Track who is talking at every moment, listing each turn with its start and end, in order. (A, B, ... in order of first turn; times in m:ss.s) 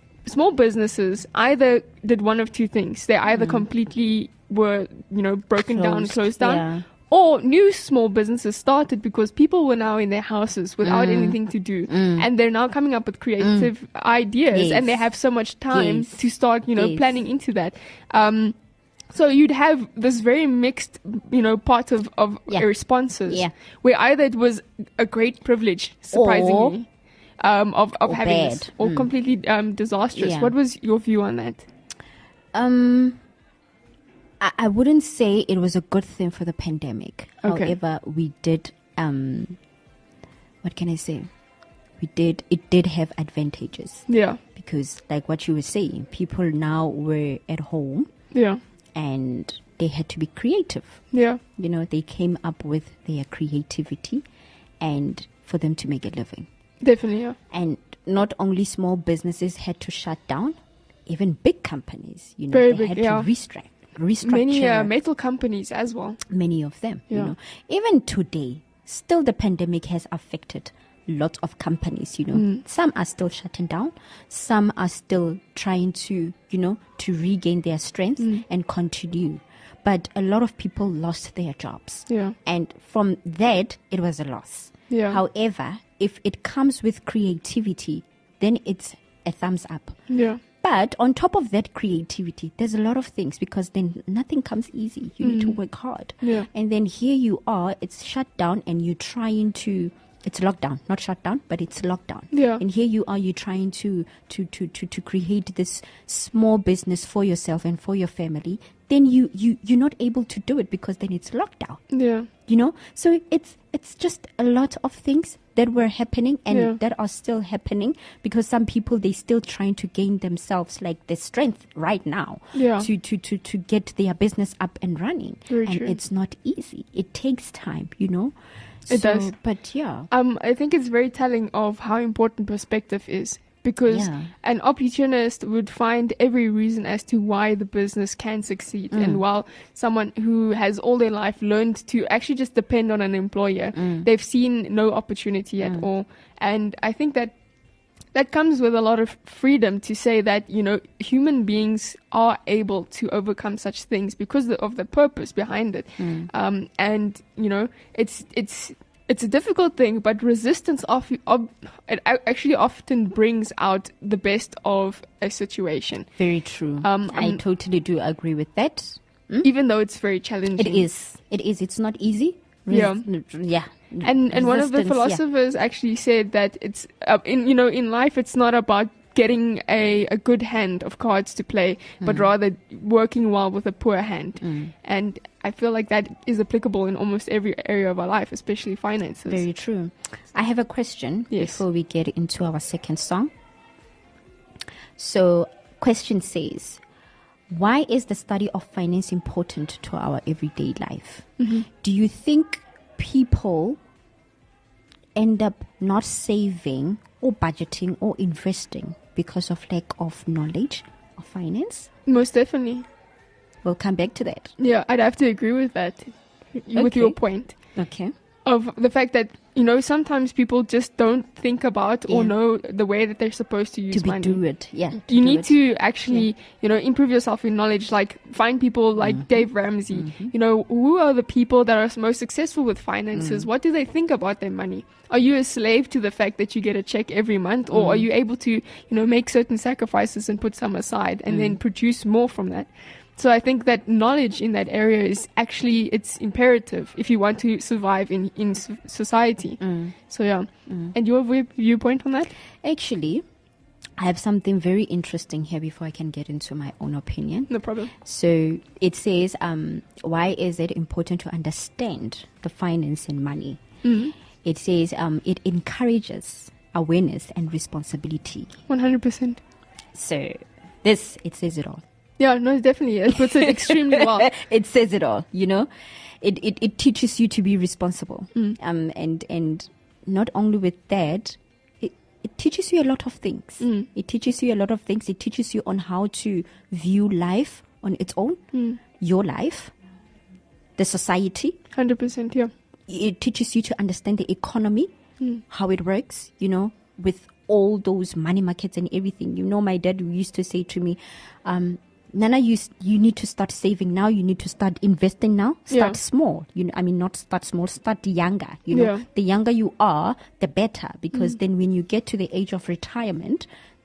0:00.2-0:18.6 A
0:03.3-0:03.7 B
0:05.7-0:06.9 B
0:10.8-0:12.3 B
0:13.4-0:13.7 B
0:14.5-0:15.1 B
0:15.7-0:17.2 B
0:19.1-0:26.9 A
0:23.3-0:23.5 B
0:26.1-0:26.8 B
0:27.4-0:31.7 A
0:28.0-0:29.1 B
0:30.2-0:30.5 B
0:32.5-0:33.2 B
0:34.4-0:39.6 B
0:37.4-0:37.8 A
0:40.6-0:41.3 B
0:42.0-0:48.1 B
0:44.1-0:44.4 A
0:48.3-0:48.6 A
0:48.9-0:54.2 B
0:51.1-0:51.4 A
0:54.8-0:56.5 B
0:56.8-0:57.4 A
0:57.5-1:04.9 B
1:02.5-1:03.3 A
1:04.2-1:06.2 A
1:06.3-2:10.1 B
1:12.3-1:12.6 A
1:18.2-1:18.4 A
1:22.1-1:22.4 A
1:24.9-1:25.2 A
1:30.1-1:30.4 A
1:35.2-1:35.6 A
1:36.2-1:36.5 A
1:42.3-1:42.6 A
1:51.9-1:52.3 A
1:56.5-1:56.8 A
2:02.5-2:02.9 A
2:05.5-2:06.0 A
2:08.9-2:09.3 A
2:10.1-2:27.4 A
2:13.9-2:14.3 B
2:18.9-2:19.2 B
2:23.7-2:24.1 B
2:25.6-2:25.9 B
2:28.1-2:46.1 A
2:36.0-2:36.3 B
2:46.2-2:49.5 B
2:46.8-2:47.4 A
2:49.4-2:50.9 A
2:50.6-2:55.2 B
2:52.7-2:53.1 A
2:54.0-3:09.4 A
3:02.0-3:02.3 B
3:04.4-3:04.7 B
3:09.3-3:13.3 B
3:11.3-3:11.6 A
3:15.0-3:16.8 B
3:17.5-3:23.8 B
3:21.4-3:21.7 A
3:25.2-3:31.9 B
3:32.1-3:32.9 A
3:33.6-3:34.5 B
3:34.6-3:37.6 A
3:36.7-3:38.1 B
3:38.5-3:44.4 A
3:42.1-3:42.4 B
3:43.9-3:46.3 B
3:45.1-4:12.3 A
3:49.0-3:50.3 B
3:53.1-3:53.5 B
3:57.7-3:58.1 B
4:01.3-4:01.6 B
4:09.6-4:10.0 B
4:10.7-4:11.0 B
4:12.6-4:13.2 B
4:14.0-4:23.6 B
4:17.5-4:17.9 A
4:23.8-4:24.1 A
4:24.4-4:28.6 B
4:28.7-4:29.4 A
4:30.0-4:31.8 B
4:32.2-4:34.3 A
4:33.1-4:35.7 B
4:36.2-4:49.7 B
4:43.6-4:43.9 A
4:48.5-4:48.8 A
4:50.8-4:51.6 B
4:51.7-4:52.5 A
4:52.9-5:13.5 B
5:05.7-5:06.0 A
5:08.7-5:09.0 A